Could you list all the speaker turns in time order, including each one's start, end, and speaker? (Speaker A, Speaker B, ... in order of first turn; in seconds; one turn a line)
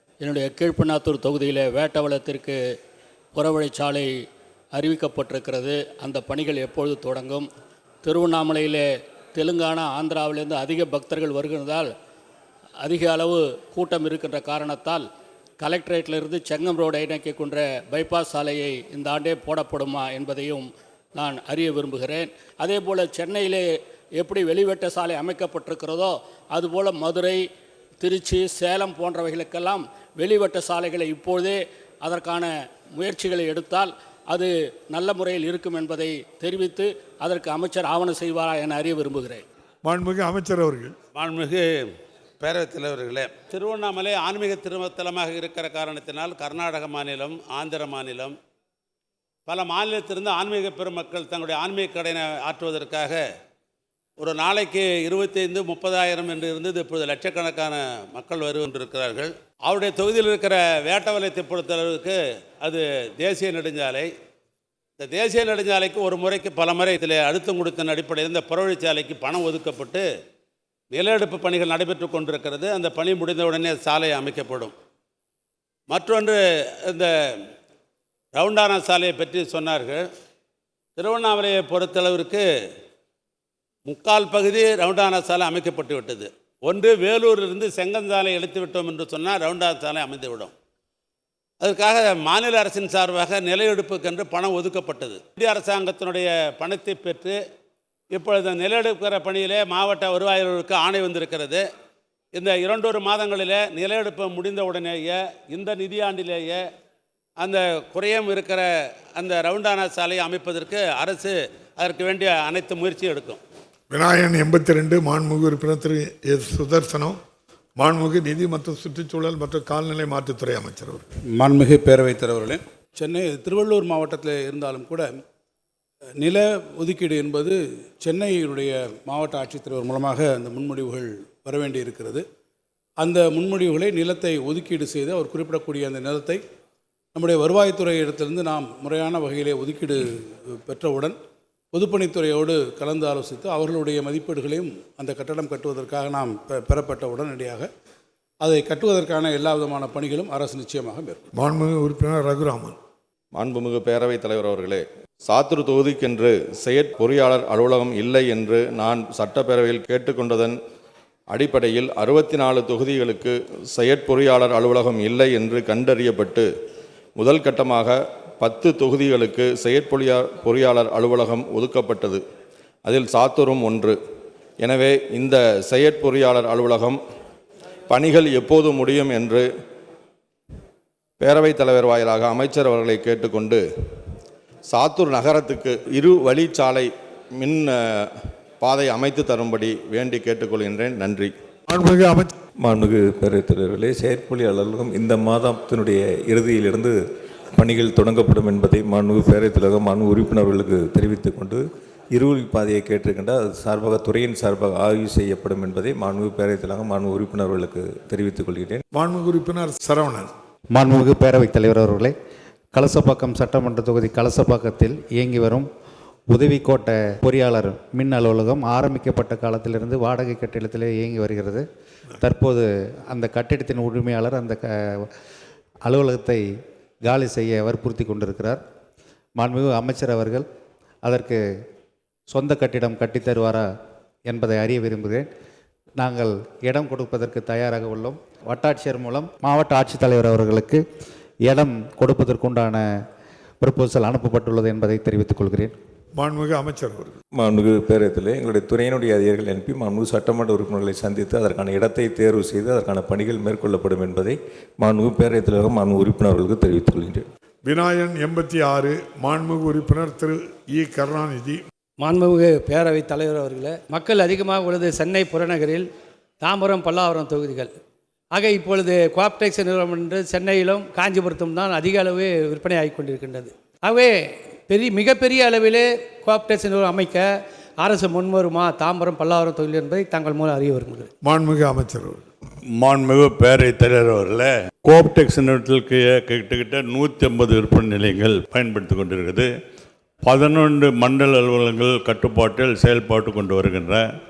Speaker A: 0.2-2.6
Speaker A: 3.4-4.1
Speaker A: 4.7-7.5
Speaker A: 8.0-11.9
Speaker A: 12.8-15.1
Speaker A: 15.6-27.4
Speaker A: 28.0-39.5
Speaker B: 39.8-41.0
Speaker C: 41.1-41.7
Speaker C: 42.4-48.4
Speaker C: 49.5-53.2
Speaker C: 54.2-64.1
Speaker C: 65.0-70.0
Speaker C: 70.9-74.7
Speaker C: 75.9-77.1
Speaker C: 78.4-80.0
Speaker C: 81.0-82.4
Speaker C: 83.9-90.5
Speaker C: 91.6-97.4
Speaker C: 98.1-101.6
Speaker C: 102.3-106.6
Speaker C: 107.4-108.7
Speaker C: 109.2-113.4
Speaker B: 113.9-117.2
Speaker B: 117.8-121.1
Speaker D: 121.3-125.1
Speaker D: 126.2-132.3
Speaker D: 133.0-136.4
Speaker D: 137.2-140.1
Speaker D: 140.6-141.2
Speaker D: 141.7-147.7
Speaker D: 148.4-151.2
Speaker B: 151.3-152.8
Speaker E: 153.3-160.6
Speaker E: 161.3-166.5
Speaker E: 167.2-172.2
Speaker E: 172.8-174.0
Speaker E: 174.6-177.0
Speaker E: 177.9-179.4
Speaker E: 181.2-183.6
Speaker E: 184.7-188.1
Speaker E: 188.6-191.3
Speaker B: 191.7-192.3
Speaker F: 192.6-197.0
Speaker F: 197.5-208.8
Speaker B: 208.9-210.3
Speaker G: 210.7-212.2
Speaker G: 212.8-215.7
Speaker G: 216.3-221.7
Speaker G: 222.2-225.0
Speaker G: 225.9-226.5
Speaker G: 227.1-228.6
Speaker G: 229.4-230.5
Speaker G: 231.0-231.4
Speaker G: 232.3-233.7
Speaker G: 234.3-235.3
Speaker G: 236.0-240.8
Speaker G: 241.5-242.9
Speaker G: 243.6-245.7
Speaker B: 246.2-247.2
Speaker F: 247.3-257.3
Speaker B: 257.6-261.6
Speaker H: 262.0-265.9
Speaker H: 266.4-267.7
Speaker H: 268.3-281.1
Speaker B: 281.2-282.2
Speaker I: 282.8-289.5
Speaker I: 290.2-294.0